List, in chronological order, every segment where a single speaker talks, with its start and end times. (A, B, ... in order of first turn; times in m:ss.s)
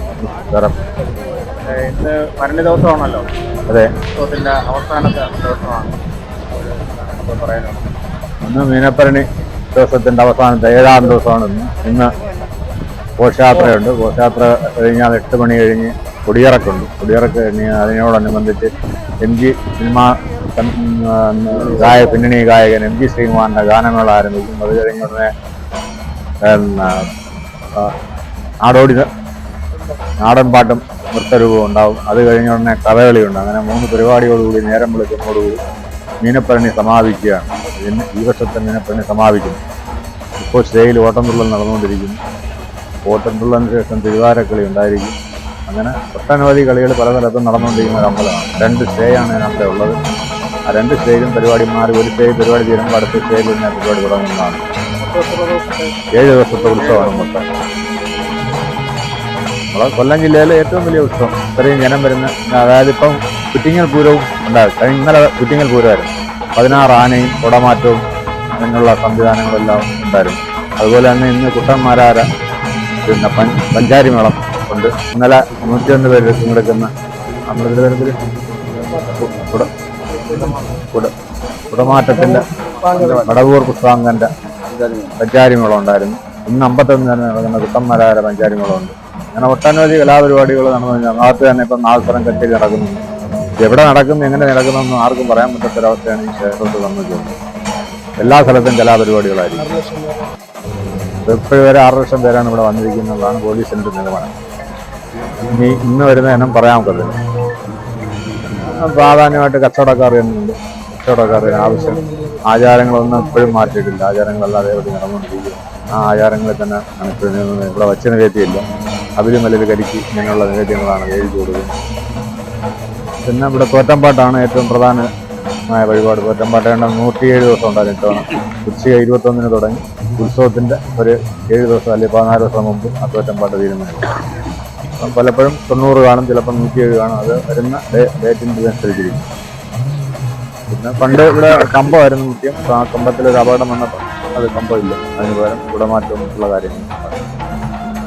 0:00.2-0:00.7 A
0:01.6-0:03.2 B
0:03.7-0:03.9 A
0:04.1-0:06.0 B
0:06.5-0:07.8 B
0:08.4-0:12.1 A
0:13.2-0:25.3 A
0:26.4-0:27.0 A
0:28.6-0:29.1 A
0:30.2-0:35.6 A
0:36.2-0:39.6 A
0:40.4-0:42.2 A
0:43.0-0:45.1 A
0:45.7-0:50.0 A
0:50.7-0:54.6 A
0:55.0-0:55.9 B
0:56.1-0:57.5 A
0:56.7-0:57.1 B
0:59.7-1:08.0 A
1:08.6-1:12.2 A
1:13.0-1:16.9 A
1:17.5-1:18.2 A
1:19.0-1:19.7 A
1:20.1-1:20.7 B
1:21.7-1:24.3 A
1:22.6-1:23.3 B
1:24.7-1:25.2 B
1:25.2-1:33.0 A
1:33.6-1:37.4 A
1:38.2-1:39.9 A
1:41.2-1:44.3 A
1:45.5-1:47.2 A
1:48.6-1:58.6 A
1:59.2-2:01.7 A
2:03.2-2:05.1 A
2:05.7-2:14.1 A
2:15.0-2:19.2 A
2:20.7-2:27.2 A